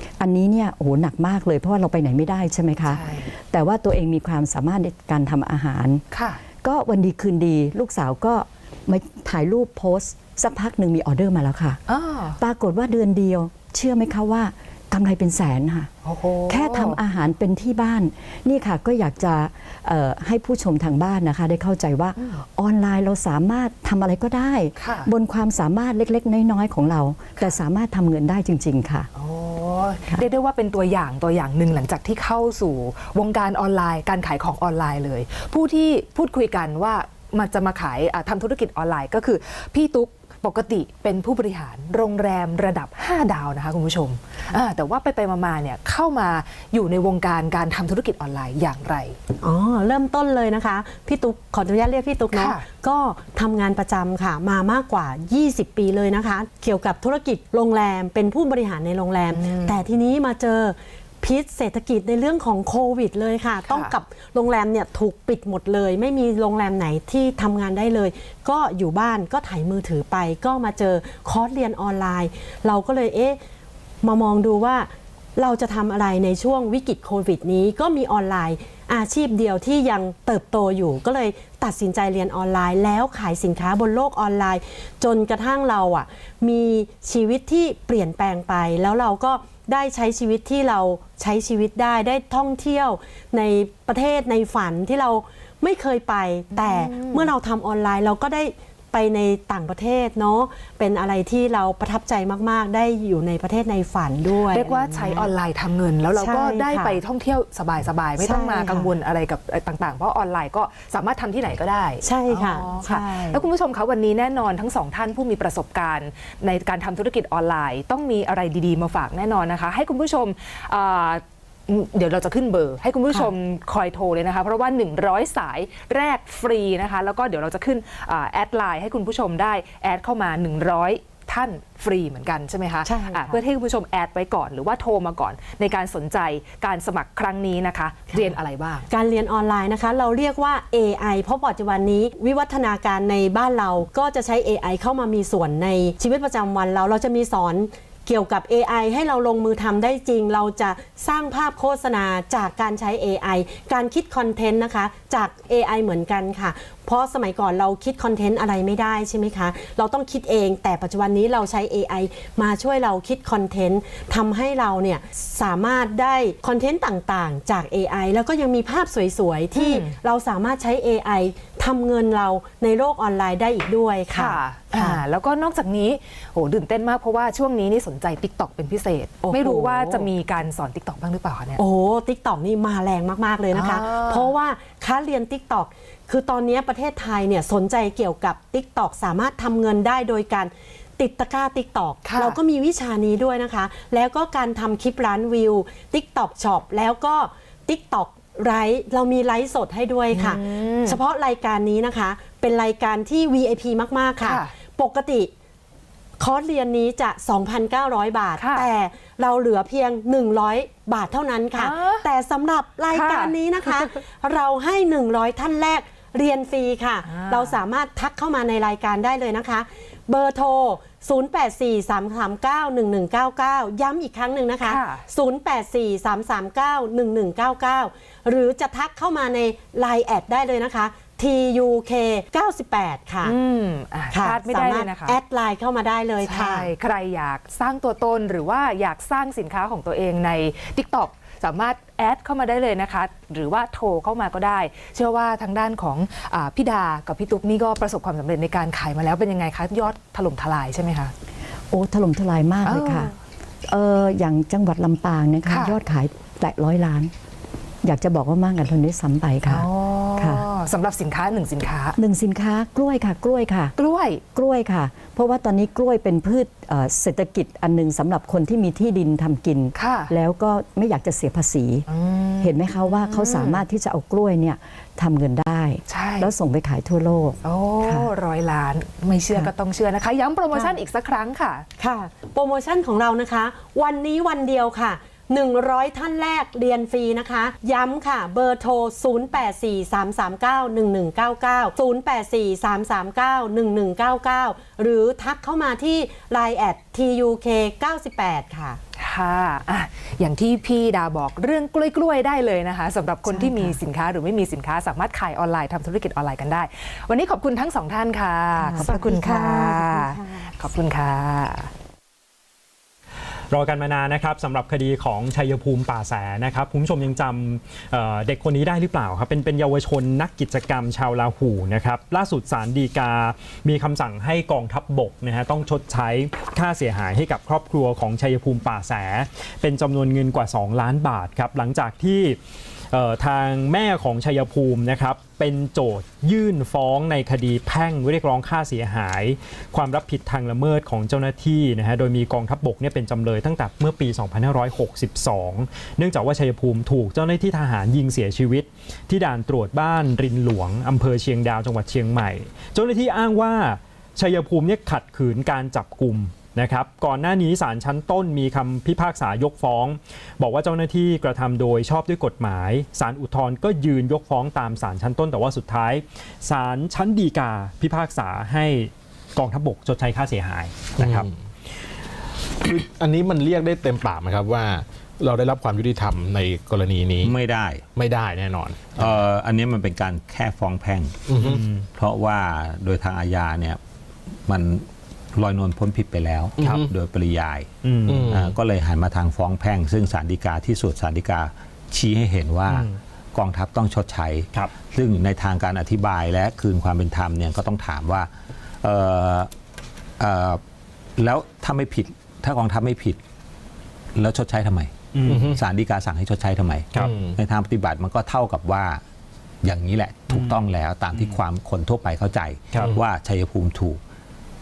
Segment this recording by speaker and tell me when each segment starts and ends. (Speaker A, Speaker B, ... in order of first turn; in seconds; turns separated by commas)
Speaker A: 0.2-6.0, Speaker B: 2.9-3.3, Speaker B: 6.1-6.4, Speaker A: 6.6-11.8, Speaker B: 11.9-12.4, Speaker A: 12.4-15.9, Speaker B: 16.0-17.0, Speaker A: 16.5-29.1, Speaker B: 24.8-25.1, Speaker B: 29.1-49.2, Speaker C: 49.4-73.4, Speaker B: 52.3-52.6, Speaker B: 59.3-59.8, Speaker B: 63.7-63.9, Speaker C: 74.0-105.3, Speaker B: 96.5-97.3, Speaker B: 104.4-138.9, Speaker C: 106.1-107.0, Speaker C: 108.2-108.9, Speaker C: 112.0-113.4, Speaker C: 132.8-133.4, Speaker C: 138.9-175.0, Speaker B: 169.6-169.9, Speaker B: 174.1-181.6, Speaker C: 179.3-180.1, Speaker C: 181.6-205.3, Speaker B: 183.5-184.3, Speaker B: 192.0-192.4, Speaker B: 200.1-201.0, Speaker B: 204.2-204.5, Speaker C: 206.2-233.3, Speaker B: 208.4-208.7, Speaker B: 211.5-212.0, Speaker B: 212.9-213.9, Speaker B: 217.0-217.6, Speaker B: 224.6-225.0, Speaker B: 233.2-235.2, Speaker C: 234.1-236.7, Speaker B: 236.2-251.1, Speaker A: 251.7-253.1, Speaker B: 252.6-253.1, Speaker A: 253.7-257.1, Speaker B: 255.4-255.8, Speaker A: 257.8-259.7, Speaker B: 259.4-262.0, Speaker A: 260.2-260.5, Speaker A: 261.9-263.7, Speaker B: 263.8-264.2, Speaker A: 264.3-271.9, Speaker B: 269.7-270.1, Speaker B: 271.9-273.6, Speaker A: 272.4-278.1, Speaker B: 275.9-276.3, Speaker B: 277.4-281.6, Speaker C: 281.8-298.8, Speaker B: 298.9-311.7, Speaker C: 303.2-303.8, Speaker C: 308.6-310.4, Speaker D: 313.5-332.4, Speaker D: 332.9-371.3, Speaker E: 371.0-371.3, Speaker E: 372.6-377.3, Speaker F: 377.2-377.8, Speaker E: 377.9-379.2, Speaker F: 378.9-381.2, Speaker E: 381.3-381.6, Speaker D: 381.4-381.9, Speaker F: 381.9-383.8, Speaker F: 384.5-387.7, Speaker E: 386.6-386.9, Speaker D: 386.6-386.9, Speaker D: 387.8-388.4, Speaker E: 388.1-388.5, Speaker F: 388.3-398.3, Speaker D: 392.7-393.0, Speaker F: 398.8-399.5, Speaker F: 400.2-400.6, Speaker F: 401.2-403.2, Speaker F: 404.1-409.0, Speaker D: 405.1-405.6, Speaker E: 405.2-405.6, Speaker E: 406.9-407.4, Speaker F: 409.6-414.0, Speaker D: 410.3-410.6, Speaker E: 412.8-413.0